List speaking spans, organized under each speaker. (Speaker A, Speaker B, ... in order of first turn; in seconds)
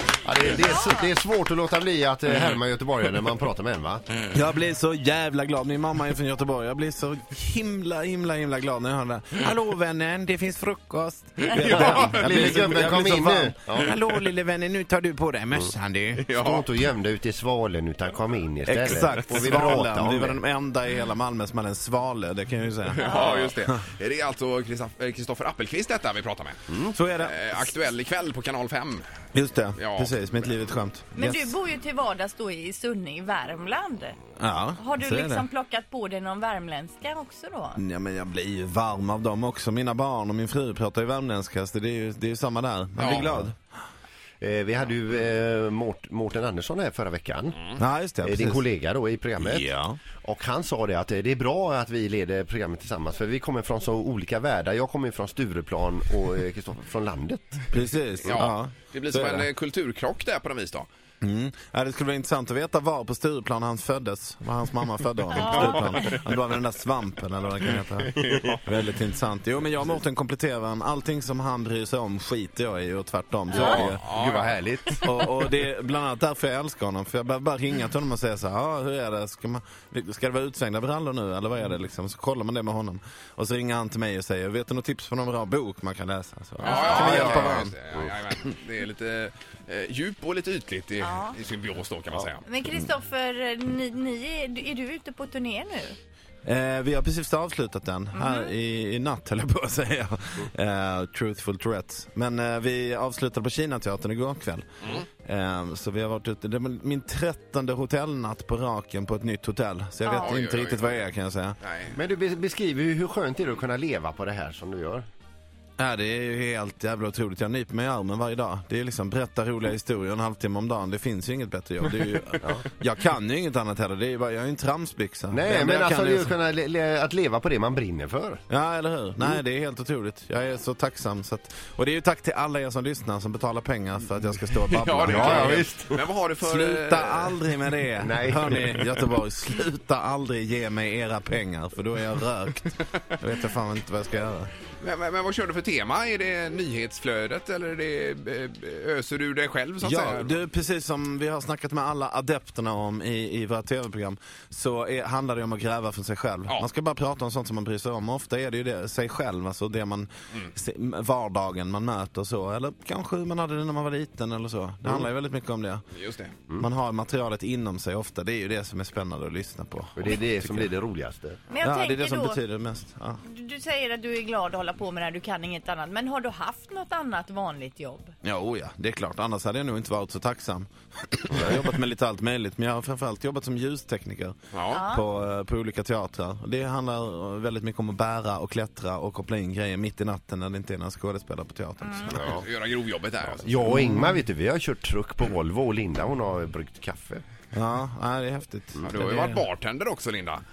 Speaker A: 0.2-4.1, 11.7-13.9, 16.4-20.4, 43.0-43.3, 44.4-49.7, 50.2-57.6, 73.5-75.2, 87.0-87.5, 111.9-115.1, 125.3-128.4, 135.1-136.0, 138.0-138.8, 170.0-171.4, 192.2-192.4, 193.4-197.2
Speaker B: 0.6-1.1, 23.1-23.3, 31.1-34.2, 34.8-37.8, 65.3-66.1, 86.7-87.4, 91.0-91.4, 92.5-96.0, 98.2-98.5, 110.0-110.3, 171.5-172.4, 173.3-178.1, 184.7-185.1, 191.8-192.1
Speaker C: 4.3-16.4, 18.7-23.8, 26.9-27.5, 29.3-31.6, 34.4-35.5, 37.8-43.6, 47.8-48.6, 49.4-50.0, 57.7-59.5, 61.2-74.0, 75.0-87.8, 96.5-111.6, 115.8-126.4, 128.5-135.7, 136.4-144.5, 149.8-165.9, 166.6-170.7, 171.6-173.2, 178.2-192.3, 193.7-194.2, 197.5-199.5
Speaker D: 11.5-12.6, 16.2-16.7, 22.9-26.6, 27.2-29.1, 29.8-30.3, 43.0-43.3, 58.2-60.9, 73.5-74.6, 86.6-92.5, 110.2-111.0, 111.6-112.0, 134.6-137.6, 144.8-150.3, 166.0-166.3, 184.5-184.8, 192.1-193.5, 198.8-200.4